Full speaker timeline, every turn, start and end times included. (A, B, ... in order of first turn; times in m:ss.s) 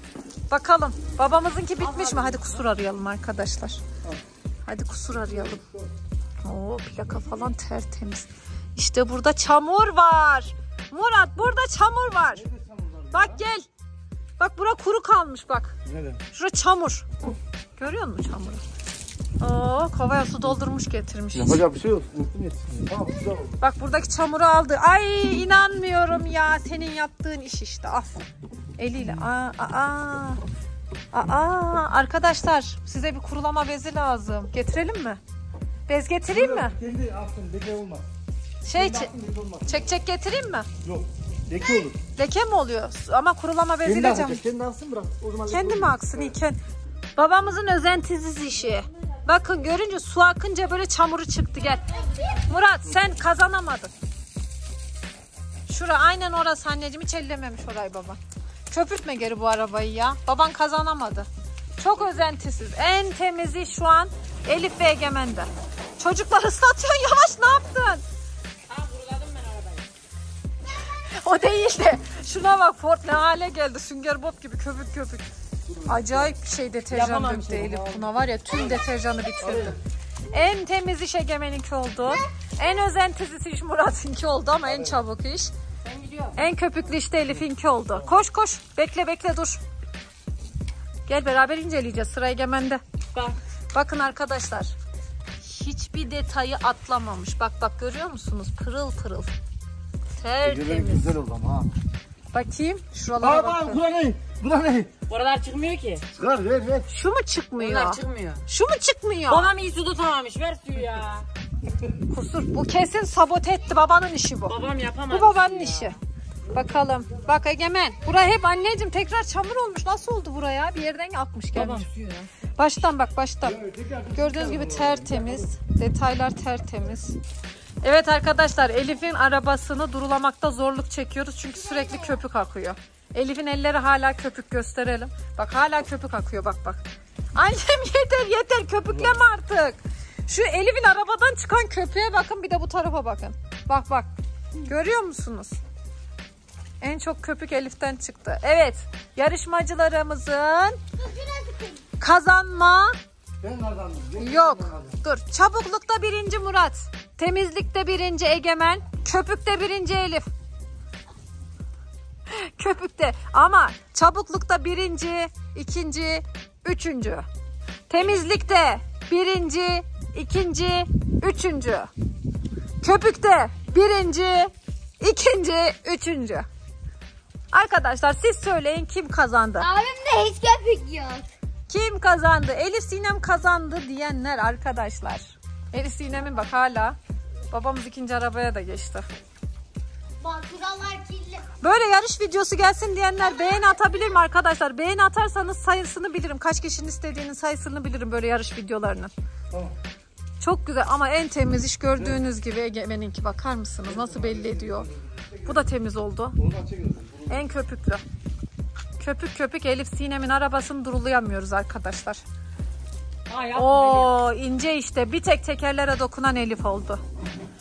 0:00.5-0:03.8 A
0:01.8-0:02.5 B
0:04.6-0:05.6 A
0:05.5-0:05.9 C
0:06.4-0:12.5 A
0:12.3-0:13.4 C
0:13.1-0:13.7 A
0:14.4-0:15.7 A
0:15.8-0:16.2 C
0:16.3-0:17.1 A
0:17.8-0:18.6 A
0:19.4-0:21.7 A
0:21.3-0:23.6 C
0:23.6-0:28.1 A
0:28.8-0:30.4 A
0:31.1-0:35.2 A
0:35.9-0:36.7 A
0:36.3-0:38.1 C
0:38.6-0:39.1 A
0:38.7-0:39.8 C
0:39.6-0:40.7 A
0:40.8-0:42.0 C
0:42.1-0:44.4 A
0:43.8-0:46.3 C
0:45.5-0:46.6 A
0:47.2-0:53.9 A
0:52.0-0:52.2 B
0:55.7-0:58.2 A
0:58.7-1:08.0 A
1:08.7-1:09.9 B
1:10.8-1:15.2 A
1:15.7-1:16.3 C
1:15.8-1:19.8 A
1:16.9-1:18.1 B
1:19.4-1:19.8 C
1:20.3-1:25.5 A
1:24.7-1:24.9 C
1:25.8-1:26.4 B
1:26.4-1:29.6 A
1:31.1-1:32.8 A
1:33.7-1:34.7 A
1:35.4-1:39.3 A
1:40.2-1:41.2 A
1:40.4-1:41.7 C
1:42.3-1:43.8 A
1:43.2-1:44.9 C
1:45.1-1:46.1 B
1:46.2-1:46.9 C
1:46.9-1:49.5 A
1:47.6-1:48.4 B
1:49.3-1:51.3 B
1:52.0-1:54.6 A
1:54.5-1:56.0 B
1:55.1-1:56.0 A
1:56.5-2:01.9 A
2:01.5-2:02.3 B
2:02.6-2:07.2 A
2:03.4-2:05.5 C
2:07.8-2:16.8 A
2:11.6-2:12.2 D
2:17.3-2:24.1 A
2:24.6-2:25.5 A
2:26.8-2:30.8 A
2:31.0-2:31.8 D
2:32.0-2:33.0 A
2:33.4-2:35.0 C
2:34.2-2:40.3 A
2:42.3-2:47.3 A
2:47.9-2:51.9 A
2:52.8-2:56.5 A
2:57.5-2:59.7 A
2:59.6-3:01.2 D
3:01.7-3:07.0 A
3:07.5-3:09.0 A
3:10.2-3:11.5 D
3:11.6-3:19.1 A
3:13.2-3:14.2 D
3:20.4-3:24.9 A
3:23.9-3:25.5 C
3:25.4-3:26.4 A
3:26.4-3:27.4 C
3:27.3-3:28.0 A
3:29.0-3:32.2 A
3:33.3-3:34.1 B
3:33.5-3:37.0 A